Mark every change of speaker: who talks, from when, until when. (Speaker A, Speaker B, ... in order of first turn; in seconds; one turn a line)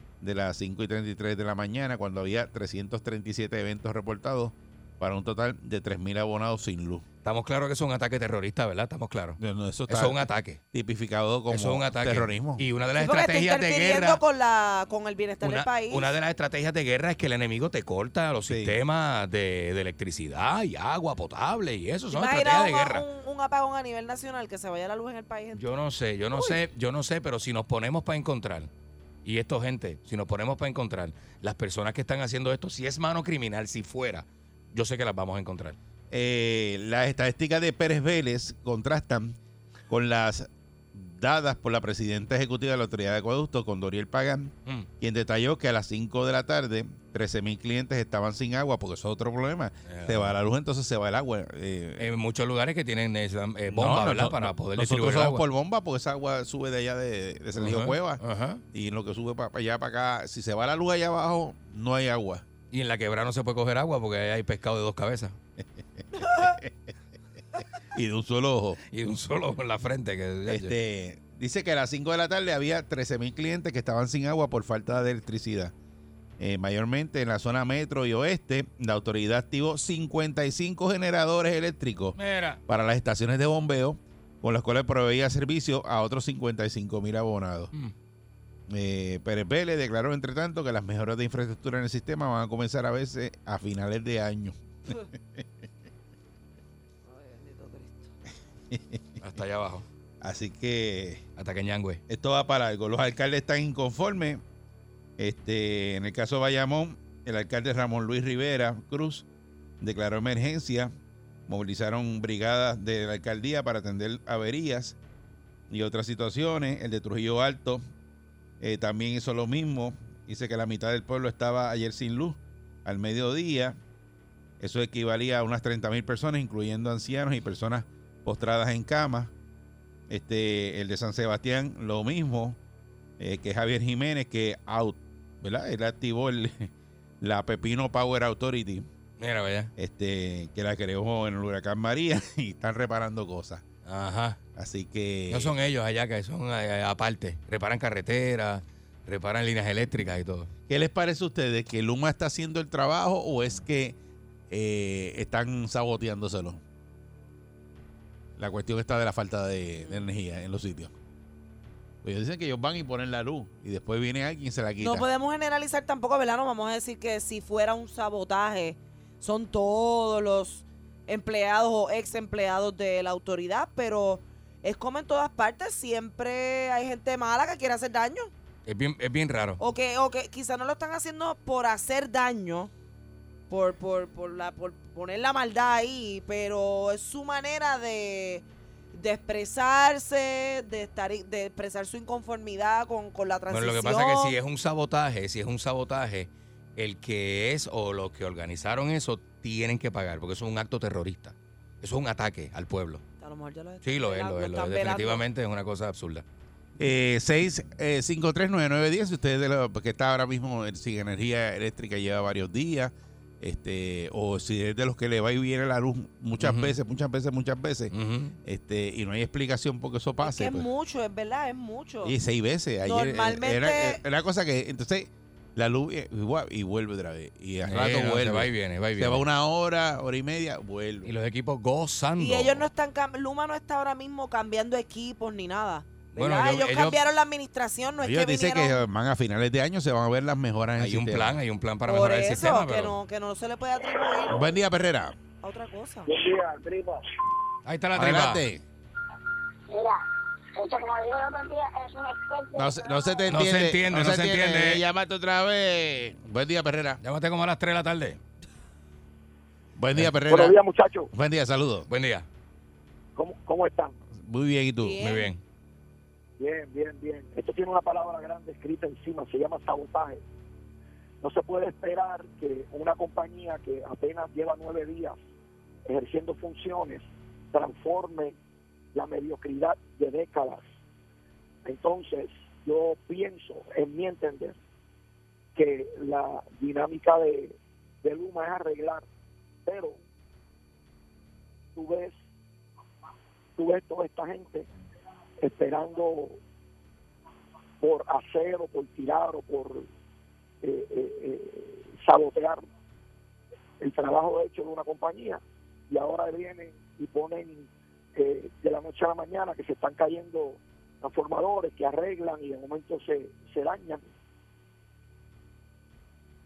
Speaker A: 0.2-7.0
Speaker B: 7.2-9.4
Speaker A: 9.4-12.7
Speaker B: 9.9-10.6
Speaker B: 11.5-14.2
Speaker C: 13.0-16.1
Speaker B: 15.4-23.1
Speaker A: 18.5-18.8
Speaker C: 22.1-25.6
Speaker B: 25.6-28.7
Speaker B: 29.2-35.8
Speaker A: 36.1-39.4
Speaker A: 39.9-52.1
Speaker B: 49.9-50.3
Speaker B: 52.0-55.4
Speaker A: 53.7-58.2
Speaker B: 57.6-58.6
Speaker A: 58.7-62.5
Speaker B: 62.7-65.4
Speaker A: 65.6-66.9
Speaker A: 67.9-68.8
Speaker B: 68.9-70.8
Speaker A: 70.5-75.7
Speaker A: 76.4-87.7
Speaker B: 82.2-82.6
Speaker A: 88.7-95.4
Speaker C: 97.1-98.1
Speaker A: 98.7-99.0
Speaker B: 99.2-99.8
Speaker A: 100.2-101.2
Speaker B: 101.4-102.0
Speaker A: 102.1-104.4
Speaker A: 105.2-109.2
Speaker A: 109.8-110.9
Speaker A: 111.5-115.0
Speaker A: 115.7-117.8
Speaker A: 118.6-123.8
Speaker A: 124.6-129.3
Speaker A: 130.1-132.6
Speaker A: 133.2-138.9
Speaker B: 139.2-139.7
Speaker A: 139.8-143.6
Speaker B: 143.8-144.4
Speaker A: 144.6-145.6
Speaker B: 145.3-150.5
Speaker A: 150.7-154.0
Speaker A: 154.5-156.6
Speaker A: 158.4-160.9
Speaker A: 162.0-165.1
Speaker C: 164.8-178.3
Speaker B: 178.7-179.6
Speaker C: 179.6-182.7
Speaker C: 183.5-194.4
Speaker B: 193.5-203.0
Speaker C: 203.2-205.2
Speaker B: 203.8-206.2
Speaker A: 206.8-217.9
Speaker B: 216.4-216.8
Speaker B: 217.9-218.3
Speaker A: 218.4-220.7
Speaker C: 220.2-222.1
Speaker A: 222.0-231.1
Speaker C: 222.8-224.0
Speaker B: 227.6-229.2
Speaker B: 231.1-232.7
Speaker C: 232.2-238.8
Speaker B: 236.1-237.0
Speaker A: 238.0-241.4
Speaker B: 240.8-243.0
Speaker C: 241.9-244.5
Speaker A: 244.3-245.2
Speaker C: 245.4-246.1
Speaker B: 247.6-248.4
Speaker A: 247.9-248.6
Speaker D: 249.7-250.0
Speaker D: 250.6-253.2
Speaker A: 252.6-257.0
Speaker B: 253.3-254.8
Speaker B: 257.0-258.2
Speaker A: 259.8-260.6
Speaker E: 260.3-261.1
Speaker A: 261.1-261.9
Speaker B: 261.9-262.2
Speaker E: 263.1-263.9
Speaker A: 264.1-265.0
Speaker C: 264.8-265.3
Speaker B: 265.0-265.4
Speaker E: 266.4-270.2
Speaker E: 271.2-275.2
Speaker E: 275.9-278.4
Speaker E: 278.9-280.7
Speaker E: 281.6-284.6
Speaker E: 285.6-289.1
Speaker E: 289.6-290.0
Speaker E: 291.8-292.2
Speaker E: 293.6-294.7
Speaker E: 295.4-296.4
Speaker E: 297.8-299.9
Speaker E: 300.6-302.6
Speaker E: 303.8-314.0